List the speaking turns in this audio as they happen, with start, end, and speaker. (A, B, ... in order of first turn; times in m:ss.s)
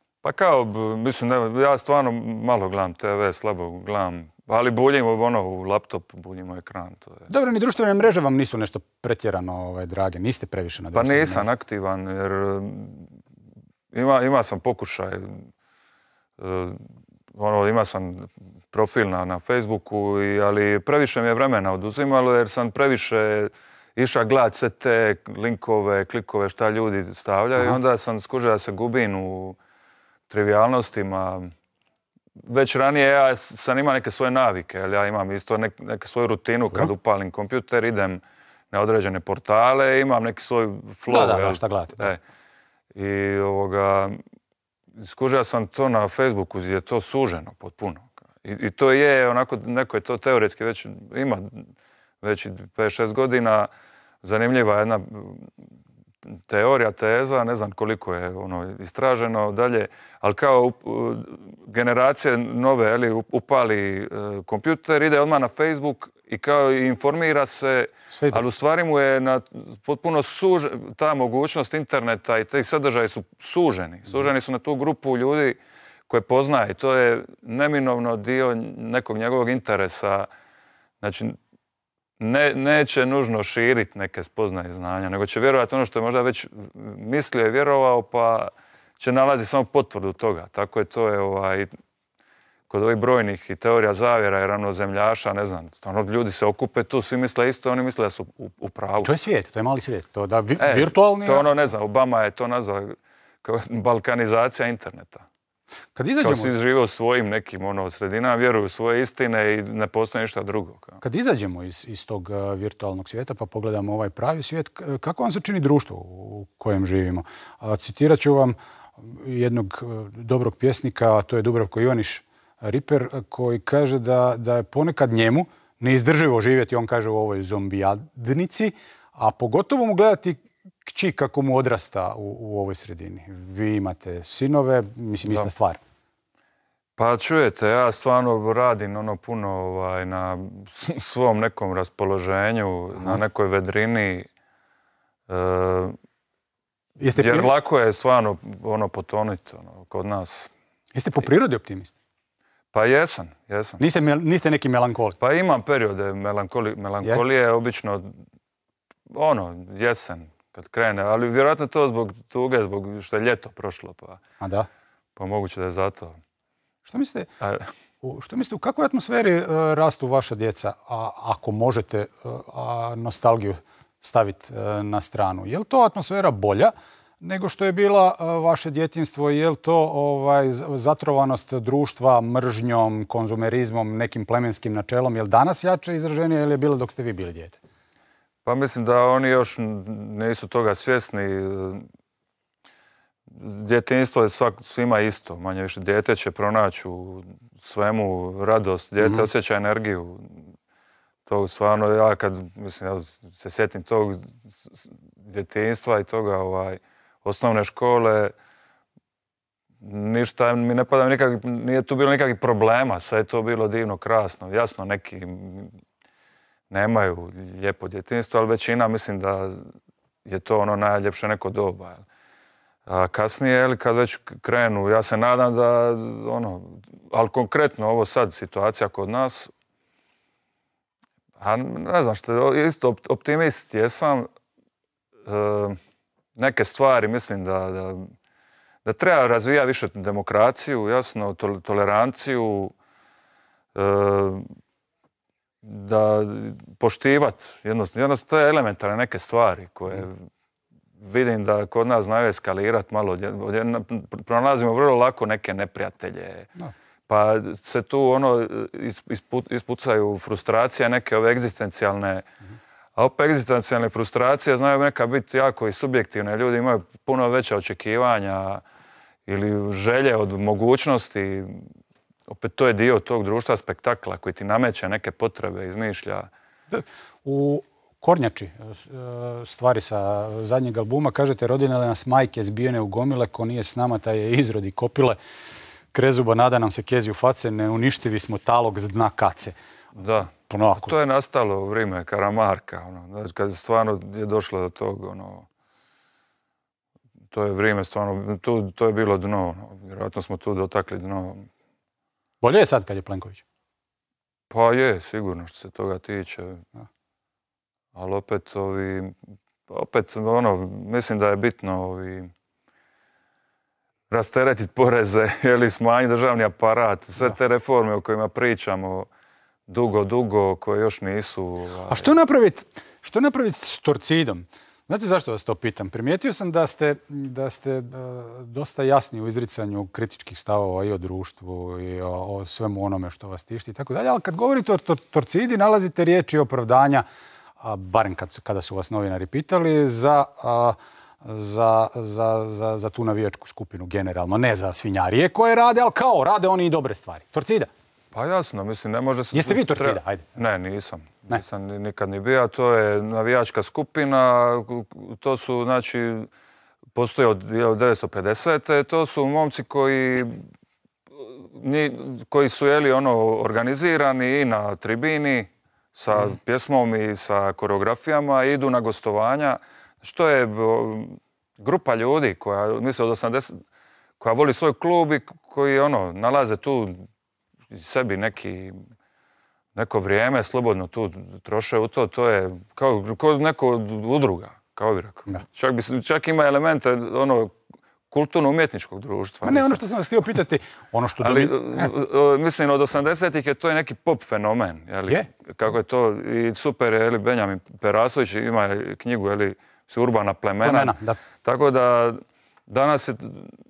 0:00.2-0:07.3 A
0:07.3-0:11.4 B
0:10.9-0:13.1 A
0:13.9-0:15.4 A
0:16.4-0:16.8 A
0:17.3-0:29.6 A
0:30.3-0:31.5 A
0:32.5-0:38.2 A
0:38.7-0:42.2 A
0:41.1-0:42.1 B
0:42.9-0:44.2 A
0:45.0-0:51.7 A
0:52.2-0:53.7 A
0:54.2-0:55.5 A
0:56.3-1:20.3 A
1:21.0-1:21.4 A
1:22.2-1:31.7 A
1:32.7-1:39.1 A
1:39.0-1:41.5 B
1:40.6-1:45.2 A
1:46.0-1:46.5 B
1:46.2-1:51.0 A
1:51.0-2:15.8 B
2:17.0-2:24.3 A
2:25.3-2:25.9 A
2:27.0-2:27.5 B
2:27.1-2:30.5 A
2:30.9-2:31.9 B
2:32.7-2:33.8 A
2:33.8-2:35.2 B
2:35.2-2:38.1 A
2:39.1-2:44.2 A
2:44.4-2:44.7 B
2:45.2-2:46.2 A
2:46.8-2:47.3 B
2:47.4-2:47.7 A
2:48.0-3:07.6 B
3:08.4-3:11.8 A
3:13.3-3:20.5 A
3:21.2-3:28.3 A
3:29.8-3:35.7 A
3:36.7-3:39.6 A
3:40.2-3:42.0 A
3:42.9-3:49.5 A
3:51.4-3:54.3 A
3:55.2-3:55.8 A
3:56.4-3:58.1 A
3:58.8-4:02.7 A
4:03.7-4:04.5 A
4:05.6-4:10.2 A
4:11.0-4:16.5 A
4:17.1-4:22.3 A
4:23.0-4:28.6 A
4:29.2-4:31.7 A
4:32.3-4:36.3 A
4:36.7-4:45.2 B
4:45.9-4:49.5 B
4:50.0-4:55.4 A
4:50.5-4:50.9 B
4:57.3-5:01.5 A
5:02.4-5:03.4 B
5:04.5-5:06.6 A
5:07.9-5:09.1 A
5:09.7-5:12.3 A
5:14.1-5:19.1 A
5:19.7-5:22.1 A
5:21.9-5:37.0 B
5:37.6-5:47.7 B
5:48.1-5:56.3 A
5:49.3-5:50.3 B
5:56.9-6:00.4 A
6:01.2-6:13.6 A
6:14.2-6:17.0 A
6:17.7-6:18.8 A
6:19.7-6:27.5 A
6:28.1-6:29.8 A
6:29.4-6:31.9 B
6:31.2-6:43.5 A
6:40.6-6:41.2 B